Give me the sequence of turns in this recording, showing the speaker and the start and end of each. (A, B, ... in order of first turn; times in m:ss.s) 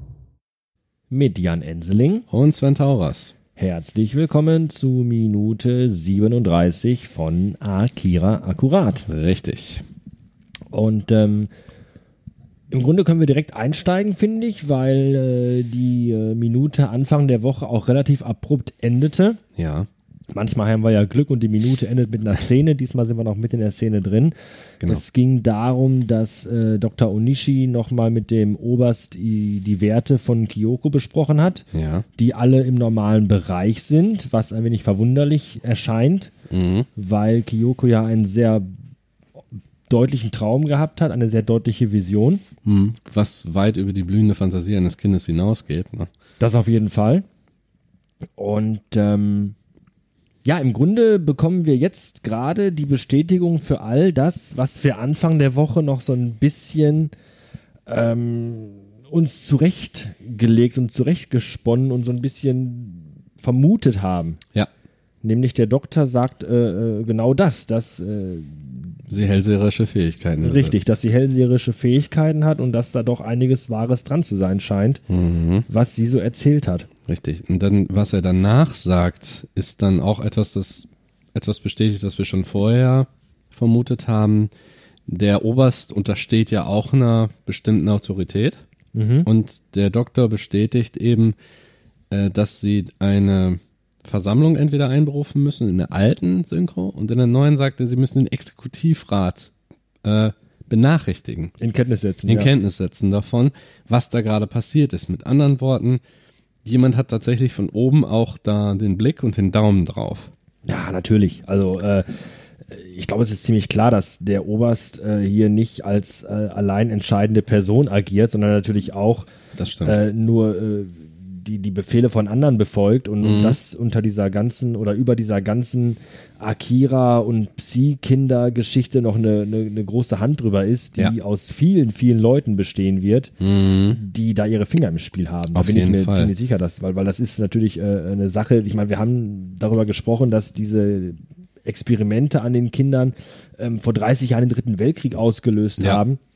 0:01.1-0:02.3 A
0:02.3-0:03.3 B
0:03.6-0:09.1 A
0:09.1-0:09.8 B
0:10.7-0:11.5 A
0:12.7-0:19.4 A
0:19.6-0:19.9 B
0:20.3-0:31.7 A
0:31.7-0:32.1 B
0:32.2-0:36.3 A
0:36.5-0:36.9 B
0:37.0-0:38.7 A
0:39.9-0:42.4 A
0:42.6-0:46.1 B
0:46.4-0:47.2 A
0:48.4-0:49.6 A
0:50.4-0:57.1 A
0:57.9-1:04.4 A
1:05.2-1:09.0 A
1:09.1-1:11.0 B
1:10.4-1:15.0 A
1:15.1-1:15.7 B
1:15.7-1:16.9 A
1:17.1-1:24.5 B
1:25.1-1:28.6 B
1:28.9-1:29.3 A
1:29.2-1:31.4 B
1:32.1-1:39.5 B
1:40.0-1:41.6 B
1:41.6-1:42.5 A
1:42.3-1:46.0 B
1:46.6-1:50.3 B
1:50.7-1:52.1 A
1:52.7-1:59.3 A
1:59.6-2:00.0 B
1:59.8-2:13.3 A
2:03.2-2:03.6 B
2:13.4-2:14.0 B
2:13.9-2:26.2 A
2:15.5-2:16.3 B